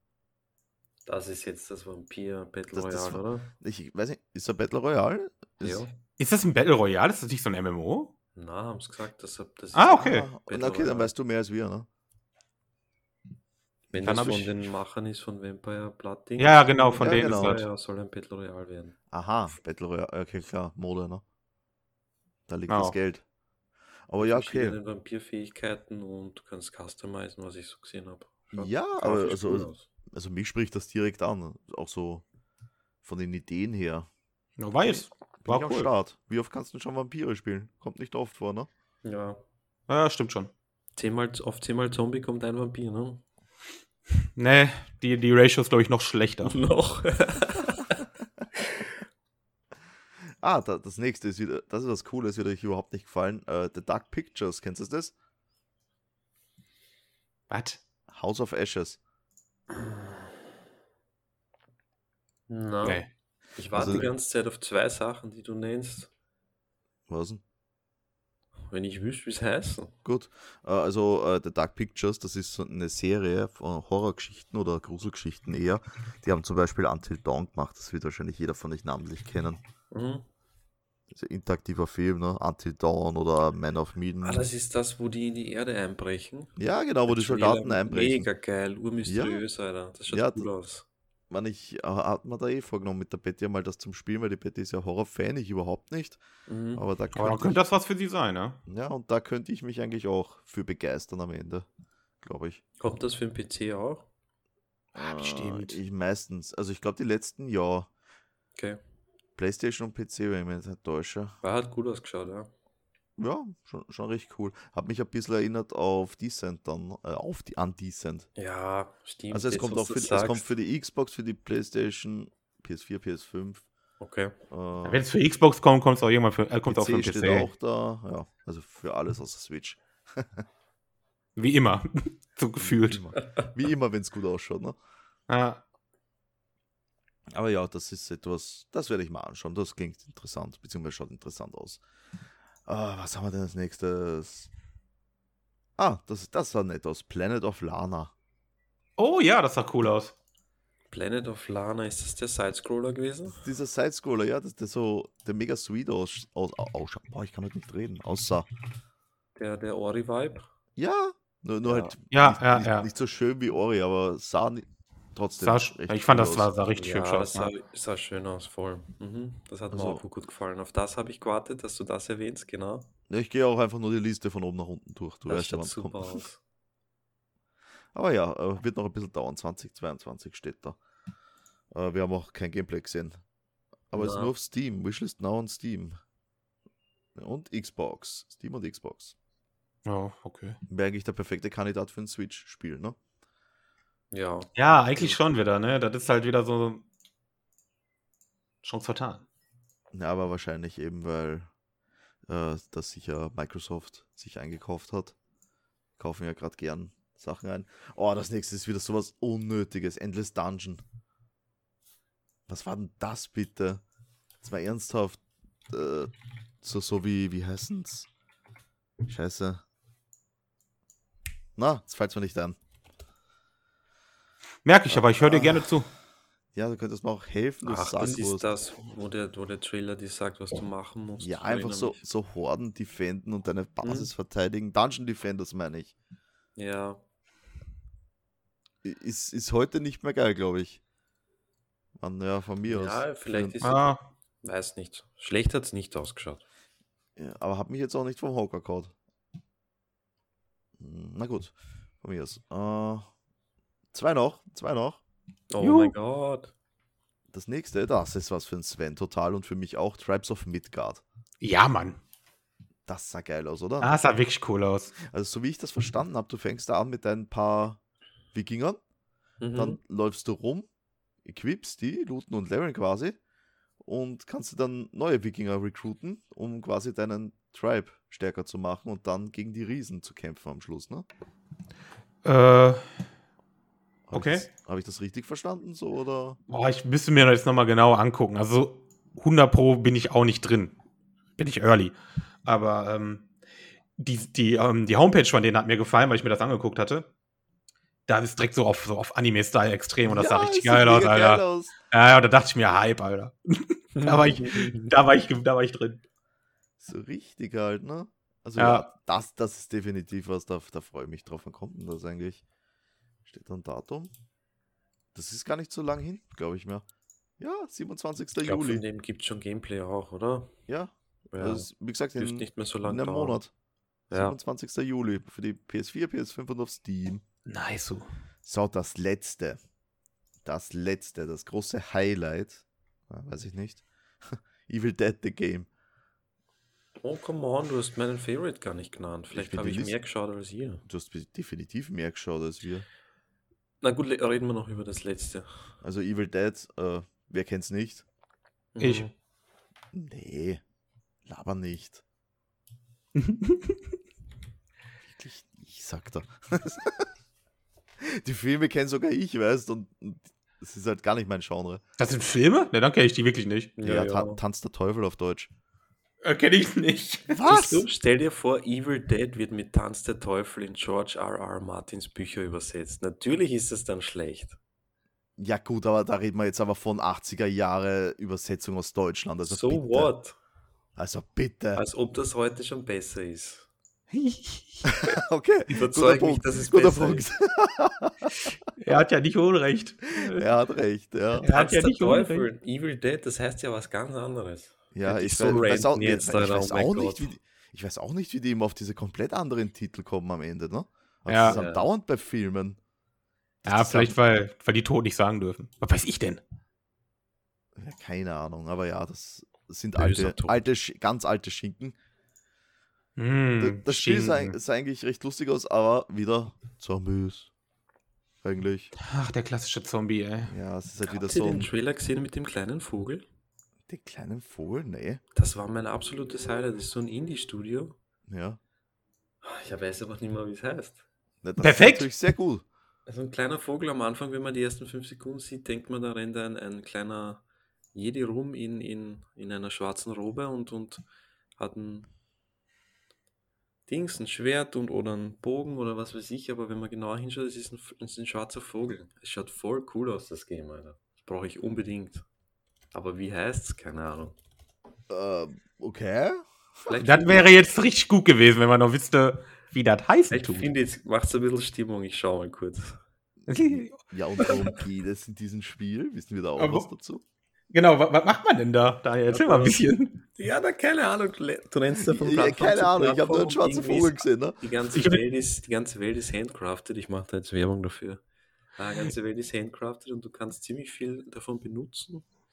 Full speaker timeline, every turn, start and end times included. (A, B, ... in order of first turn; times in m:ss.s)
0:01.0-0:03.5 A
0:02.7-0:05.8 B
0:05.6-0:05.9 A
0:06.2-0:08.1 C
0:08.3-0:11.1 A
0:09.7-0:10.3 C
0:09.9-0:11.9 B
0:13.9-0:19.0 A
0:14.0-0:14.6 C
0:16.4-0:17.6 C
0:17.0-0:17.6 B
0:19.1-0:21.2 B
0:22.5-0:23.2 B
0:22.7-0:23.0 C
0:24.1-0:24.8 B
0:24.2-0:29.9 A
0:28.5-0:32.2 B
0:33.0-0:34.1 B
0:34.6-0:35.9 C
0:35.4-0:38.7 B
0:39.0-0:39.4 A
0:39.9-0:40.5 C
0:41.0-0:43.2 A
0:44.4-0:46.6 C
0:46.4-0:48.0 A
0:48.6-0:48.9 A
0:50.4-0:55.1 B
0:57.5-0:57.8 C
0:58.1-0:59.0 B
0:59.7-1:00.2 A
1:02.5-1:03.0 A
1:03.6-1:06.1 A
1:03.7-1:04.1 B
1:07.1-1:07.4 B
1:08.7-1:09.9 A
1:10.0-1:19.6 B
1:19.9-1:20.2 A
1:21.1-1:24.5 B
1:24.2-1:26.6 A
1:26.6-1:28.3 B
1:27.1-1:30.8 A
1:29.0-1:29.4 B
1:30.1-1:30.4 B
1:31.3-1:36.2 B
1:36.5-1:36.8 A
1:36.7-1:37.6 B
1:37.2-1:38.6 C
1:38.7-1:41.7 B
1:42.2-1:42.6 B
1:42.8-1:44.0 A
1:44.9-1:45.8 C
1:44.9-1:47.9 B
1:49.4-1:51.4 B
1:51.4-1:52.5 A
1:53.2-1:58.3 B
1:58.4-2:00.5 A
1:59.3-2:03.6 B
2:04.0-2:04.4 A
2:04.5-2:05.0 B
2:04.8-2:07.5 C
2:06.7-2:10.4 B
2:11.4-2:13.0 C
2:12.6-2:14.8 B
2:15.3-2:15.6 C
2:17.3-2:21.8 B
2:22.7-2:24.5 B
2:25.8-2:28.1 B
2:29.0-2:30.1 C
2:30.9-2:33.4 A
2:33.4-2:38.5 B
2:39.4-2:40.4 A
2:40.8-2:46.5 B
2:41.6-2:41.9 A
2:42.1-2:42.9 C
2:45.4-2:47.5 C
2:46.8-2:52.9 A
2:49.7-2:50.0 B
2:53.1-2:56.2 B
2:55.3-2:56.4 A
2:57.9-3:00.8 B
3:01.7-3:03.2 B
3:03.9-3:06.0 B
3:03.9-3:04.3 A
3:07.2-3:09.1 B
3:09.8-3:10.6 C
3:10.7-3:13.0 B
3:14.1-3:15.2 A
3:14.6-3:16.8 C
3:18.6-3:19.2 C
3:19.9-3:21.5 B
3:22.3-3:25.1 B
3:26.0-3:30.8 B
3:32.5-3:33.8 B
3:34.4-3:38.1 B
3:39.1-3:39.6 B
3:41.6-3:42.6 B
3:44.6-3:45.9 C
3:44.9-3:45.7 B
3:46.5-3:48.5 B
3:47.6-3:52.0 A
3:51.2-3:55.9 B
3:53.8-3:54.1 A
3:56.6-3:57.0 A
3:58.8-4:00.8 B
4:02.0-4:03.6 B
4:02.7-4:06.4 A
4:03.6-4:04.0 C
4:07.2-4:08.9 B
4:10.8-4:13.1 B
4:13.9-4:15.0 B
4:15.5-4:16.5 A
4:15.6-4:15.9 C
4:17.3-4:21.0 B
4:21.4-4:22.0 C
4:22.8-4:23.9 B
4:23.8-4:25.0 C
4:25.0-4:27.8 B
4:28.3-4:28.8 B
4:29.4-4:29.8 A
4:29.5-4:30.7 B
4:31.2-4:33.2 B
4:33.8-4:41.0 B
4:42.2-4:42.9 C
4:44.1-4:46.4 B
4:44.1-4:44.5 C
4:46.5-4:50.7 C
4:51.4-4:53.3 C
4:54.0-4:57.1 C
4:58.1-5:06.0 C
5:00.0-5:01.7 B
5:04.0-5:04.8 A
5:06.8-5:12.4 B
5:08.6-5:08.9 C
5:13.2-5:14.1 B
5:15.1-5:16.8 B
5:17.4-5:18.8 B
5:18.4-5:20.5 A
5:20.7-5:23.5 B
5:21.3-5:23.4 A
5:24.1-5:27.2 B
5:27.4-5:28.1 C
5:28.4-5:29.6 B
5:30.4-5:35.7 B
5:37.0-5:40.8 A
5:39.3-5:39.9 B
5:40.9-5:42.8 B
5:43.8-5:45.5 A
5:45.8-5:48.0 B
5:48.7-5:49.1 A
5:48.8-5:49.1 C
5:49.9-5:50.6 B
5:51.2-5:52.0 B
5:53.1-5:53.8 C
5:55.1-5:57.1 B
5:58.0-6:01.8 B
6:02.0-6:03.8 C
6:03.8-6:04.4 A
6:03.8-6:05.5 B
6:06.2-6:07.5 C
6:07.3-6:07.8 B
6:07.5-6:14.6 A
6:15.4-6:20.1 B
6:19.4-6:20.4 A
6:21.0-6:21.8 B
6:21.7-6:23.7 A
6:24.1-6:24.9 C
6:24.8-6:28.5 B
6:25.7-6:27.2 A
6:28.8-6:30.4 C
6:30.1-6:31.5 B
6:31.4-6:32.5 C
6:31.4-6:37.3 A
6:34.9-6:42.8 B
6:41.3-6:41.6 C
6:41.5-6:41.9 A
6:43.6-6:44.2 B
6:43.6-6:46.4 C
6:47.8-6:51.9 B
6:49.9-6:50.6 A
6:53.2-6:54.6 C
6:53.6-6:57.5 B
6:58.4-6:58.9 B
6:59.0-7:00.5 C
7:00.5-7:01.7 B
7:01.0-7:03.2 A
7:03.9-7:05.2 B
7:05.3-7:07.9 A
7:08.3-7:08.6 B
7:09.4-7:11.0 A
7:11.4-7:12.6 B
7:11.6-7:12.1 C
7:13.1-7:17.4 A
7:17.9-7:21.0 A
7:21.6-7:22.1 A
7:23.9-7:32.2 A
7:32.9-7:34.4 A
7:35.1-7:37.1 B
7:36.8-7:37.5 A
7:37.0-7:40.7 C
7:40.3-7:43.0 A
7:43.5-7:44.5 C
7:43.5-7:47.2 B
7:46.6-7:46.9 C
7:47.7-7:50.2 C
7:49.3-7:58.2 A
7:52.0-7:54.6 B
7:54.9-7:55.2 C
7:58.8-8:02.2 A